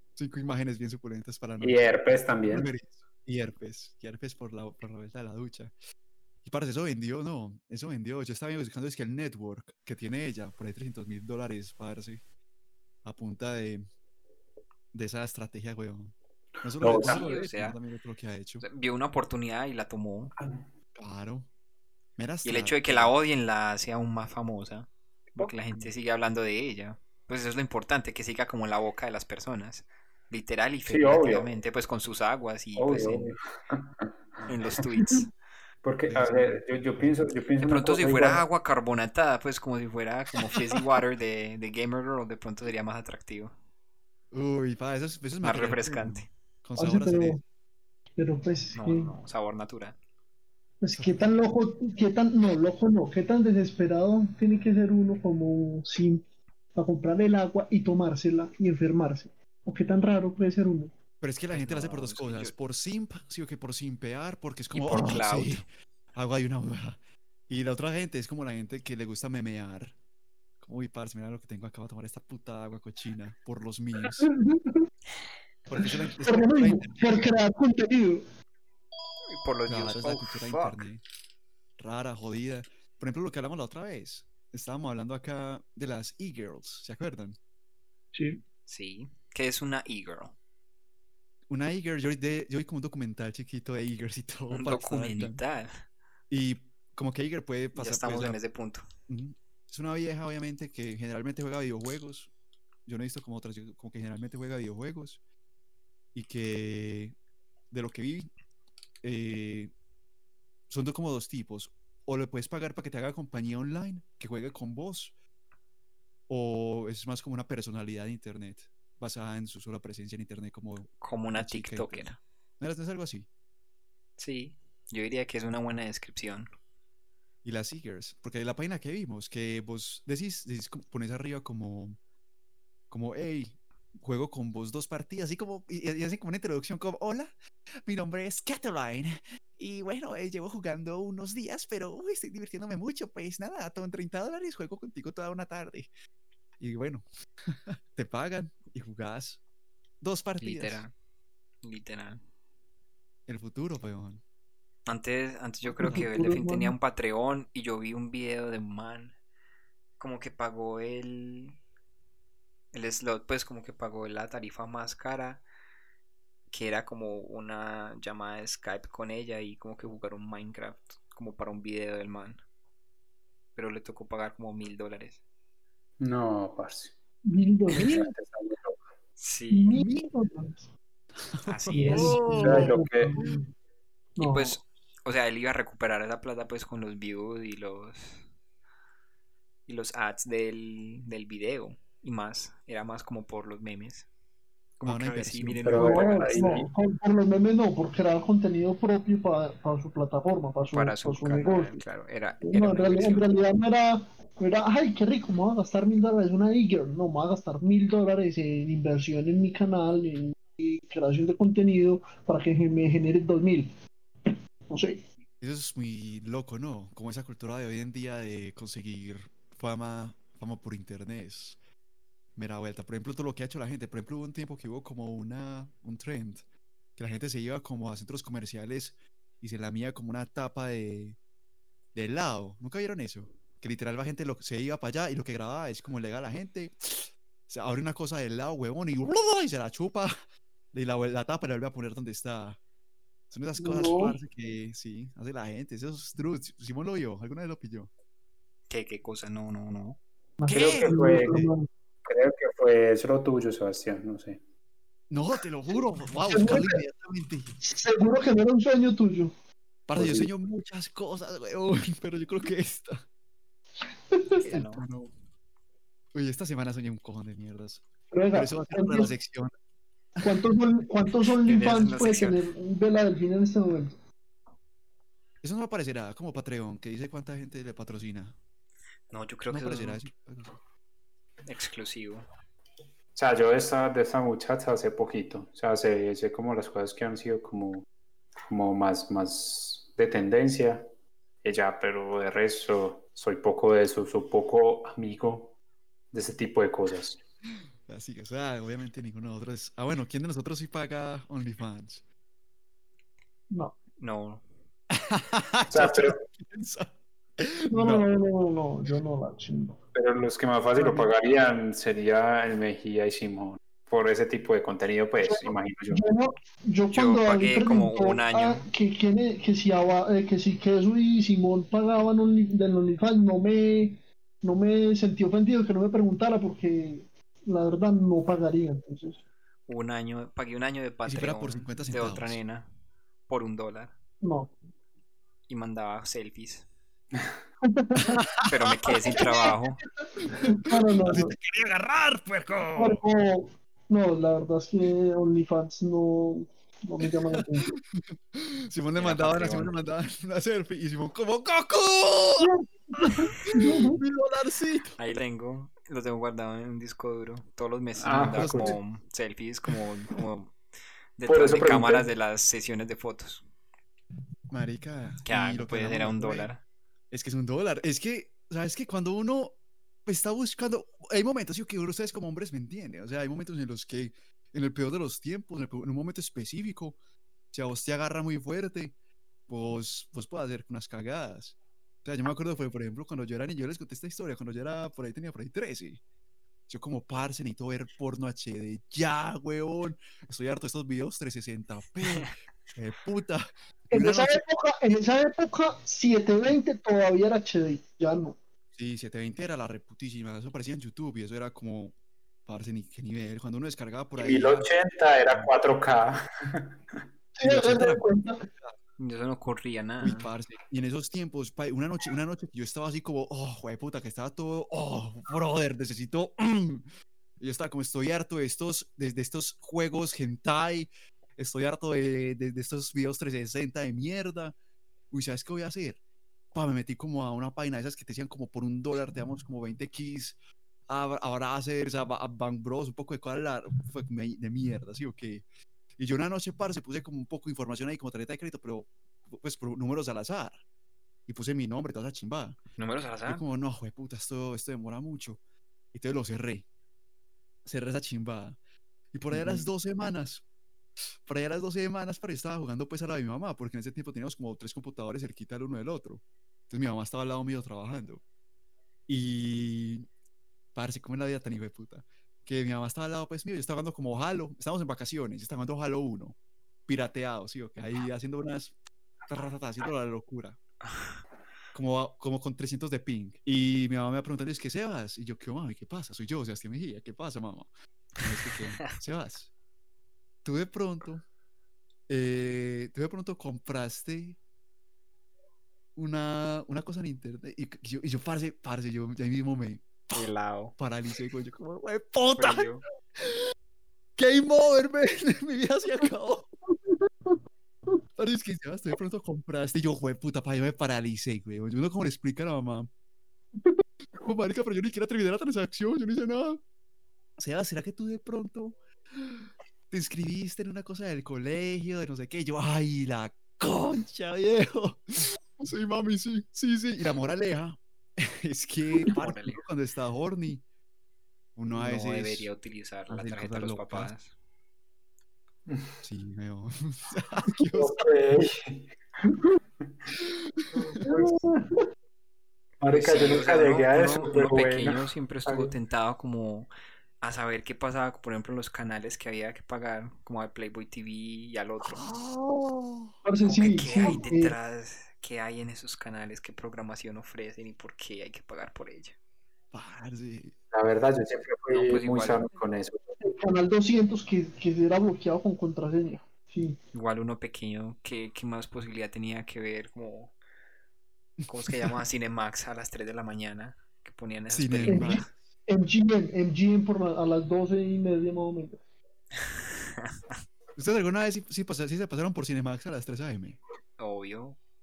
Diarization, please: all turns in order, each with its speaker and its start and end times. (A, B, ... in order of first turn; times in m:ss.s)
0:00.2-0:05.7 A
0:01.6-0:02.7 B
0:06.4-0:12.2 A
0:13.0-0:13.9 A
0:14.9-0:18.6 A
0:16.7-0:17.3 B
0:16.8-0:17.8 C
0:18.6-0:20.3 C
0:20.4-0:20.7 B
0:21.0-0:21.5 A
0:22.2-0:23.1 A
0:22.4-0:33.3 C
0:30.9-0:31.5 B
0:32.8-0:34.5 B
0:34.5-0:35.3 C
0:35.8-0:38.4 B
0:36.1-0:37.2 A
0:37.6-0:43.5 C
0:44.3-0:47.4 A
0:45.4-0:46.3 C
0:46.8-0:47.4 D
0:48.2-0:49.1 D
0:48.8-0:50.0 C
0:50.8-0:56.2 D
0:51.0-0:51.3 A
0:56.8-1:00.9 D
1:01.2-1:07.0 A
1:01.5-1:02.5 C
1:04.7-1:05.6 C
1:07.5-1:10.0 A
1:10.6-1:14.3 A
1:14.3-1:14.9 D
1:15.7-1:17.1 A
1:15.8-1:18.2 D
1:19.3-1:20.8 C
1:19.7-1:21.0 A
1:21.8-1:27.4 A
1:28.1-1:28.4 D
1:28.7-1:30.4 C
1:31.5-1:35.4 A
1:34.5-1:35.8 C
1:36.3-1:38.4 A
1:37.8-1:38.9 C
1:39.1-1:42.3 A
1:42.9-1:45.2 A
1:46.1-1:47.2 A
1:47.7-1:48.3 A
1:49.0-1:49.7 A
1:50.7-1:55.1 A
1:56.3-2:03.3 A
2:01.0-2:02.2 C
2:04.2-2:06.5 C
2:07.4-2:12.0 A
2:12.9-2:17.3 A
2:17.8-2:25.9 A
2:26.6-2:29.4 A
2:30.0-2:30.8 A
2:30.4-2:30.9 C
2:31.6-2:32.2 C
2:33.3-2:34.2 A
2:34.9-2:39.2 C
2:35.7-2:36.1 A
2:35.8-2:36.8 D
2:40.0-2:41.6 C
2:42.7-2:45.4 C
2:46.5-2:52.4 C
2:53.6-2:55.2 C
2:56.0-2:57.0 B
2:57.2-2:58.1 D
2:57.8-2:58.8 B
2:59.2-2:59.8 C
2:59.5-3:00.7 D
3:01.3-3:03.3 A
3:01.4-3:02.3 C
3:01.7-3:03.5 D
3:02.4-3:03.2 B
3:04.2-3:04.6 D
3:04.2-3:08.2 C
3:09.7-3:14.1 C
3:14.8-3:16.7 C
3:14.8-3:15.9 A
3:15.6-3:16.7 B
3:15.8-3:21.8 D
3:20.7-3:23.3 C
3:22.4-3:33.7 D
3:34.3-3:35.0 D
3:35.4-3:41.6 A
3:42.4-3:46.4 A
3:47.0-3:51.2 A
3:51.9-4:00.1 A
4:00.7-4:02.6 A
4:03.3-4:07.9 A
4:03.6-4:04.2 D
4:08.7-4:10.0 C
4:10.4-4:11.7 D
4:10.5-4:11.0 A
4:10.5-4:11.5 B
4:12.1-4:14.4 B
4:15.1-4:17.6 A
4:16.2-4:16.8 D
4:17.6-4:19.3 D
4:19.9-4:23.0 A
4:20.0-4:20.3 D
4:23.8-4:24.4 D
4:24.4-4:24.8 C
4:24.5-4:25.1 A
4:26.1-4:29.5 A
4:28.1-4:29.1 D
4:30.2-4:30.4 A
4:30.2-4:34.0 D
4:31.4-4:32.4 C
4:35.4-4:38.4 A
4:39.1-4:40.0 C
4:39.5-4:40.6 A
4:41.4-4:42.2 C
4:43.2-4:47.9 B
4:48.5-4:50.9 B
4:51.4-4:55.6 B
4:56.1-4:57.2 B
4:57.9-5:02.0 A
5:03.5-5:03.8 D
5:04.0-5:04.4 C
5:04.9-5:08.1 A
5:05.7-5:06.2 B
5:07.7-5:09.8 D
5:09.9-5:16.1 B
5:10.8-5:11.1 D
5:15.2-5:29.2 D
5:16.9-5:18.7 C
5:29.7-5:32.7 C
5:31.1-5:32.4 A
5:33.3-5:34.0 C
5:34.2-5:34.6 D
5:35.5-5:36.7 C
5:37.6-5:38.2 D
5:38.1-5:39.2 A
5:38.5-5:39.8 C
5:39.1-5:41.4 D
5:40.7-5:43.0 A
5:42.8-5:47.8 D
5:47.3-5:52.5 A
5:49.0-5:49.7 C
5:52.4-5:54.0 D
5:53.3-5:55.0 A
5:55.0-6:00.6 C
5:58.0-5:58.8 B
5:58.3-5:58.8 A
6:01.2-6:03.4 C
6:01.3-6:02.1 B
6:04.5-6:06.5 A
6:05.3-6:06.6 C
6:07.1-6:17.0 A
6:17.5-6:18.9 A
6:19.5-6:26.0 A
6:26.7-6:34.4 A
6:33.9-6:38.4 D
6:38.8-6:41.9 A
6:42.5-6:44.7 A
6:44.2-6:47.0 B
6:47.4-6:48.5 D
6:47.4-6:48.1 A
6:49.0-6:50.3 C
6:50.0-6:56.9 A
6:57.4-7:04.6 A
7:05.1-7:06.0 A
7:06.5-7:10.4 A
7:10.9-7:15.4 A
7:16.0-7:20.6 A
7:21.3-7:22.6 A
7:22.8-7:23.4 C
7:23.3-7:25.4 A
7:25.9-7:26.7 A
7:27.6-7:28.6 A
7:29.1-7:30.4 A
7:29.3-7:29.7 C
7:31.2-7:38.2 A
7:39.1-7:40.1 A
7:40.8-7:46.4 A
7:46.9-7:48.7 A
7:49.3-7:50.6 A
7:51.7-7:59.5 A
8:00.4-8:01.2 A
8:02.1-8:04.4 A
8:06.0-8:13.5 A
8:10.1-8:10.7 C
8:12.4-8:12.8 C
8:14.2-8:16.5 A
8:16.9-8:17.4 D
8:18.2-8:22.9 A
8:24.2-8:26.6 A
8:27.4-8:40.6 A
8:39.1-8:39.6 C
8:41.6-8:42.5 A
8:41.7-8:44.3 C
8:43.1-8:44.1 A
8:45.7-8:46.0 B
8:46.0-8:48.1 A
8:47.7-8:48.9 B
8:50.2-8:51.0 A
8:50.9-8:51.4 B
8:51.0-8:51.8 D
8:52.8-8:55.7 B
8:52.9-8:56.7 C
8:57.2-9:02.1 C
9:01.8-9:03.2 A
9:03.2-9:04.6 D
9:03.4-9:09.2 C
9:09.7-9:10.5 A
9:10.7-9:13.1 B
9:11.7-9:12.5 C
9:13.2-9:16.8 D
9:16.9-9:20.3 C
9:21.4-9:22.0 A
9:21.5-9:25.3 C
9:24.5-9:25.3 A
9:24.9-9:28.8 D
9:29.8-9:30.2 C
9:30.8-9:33.6 A
9:34.0-9:34.6 C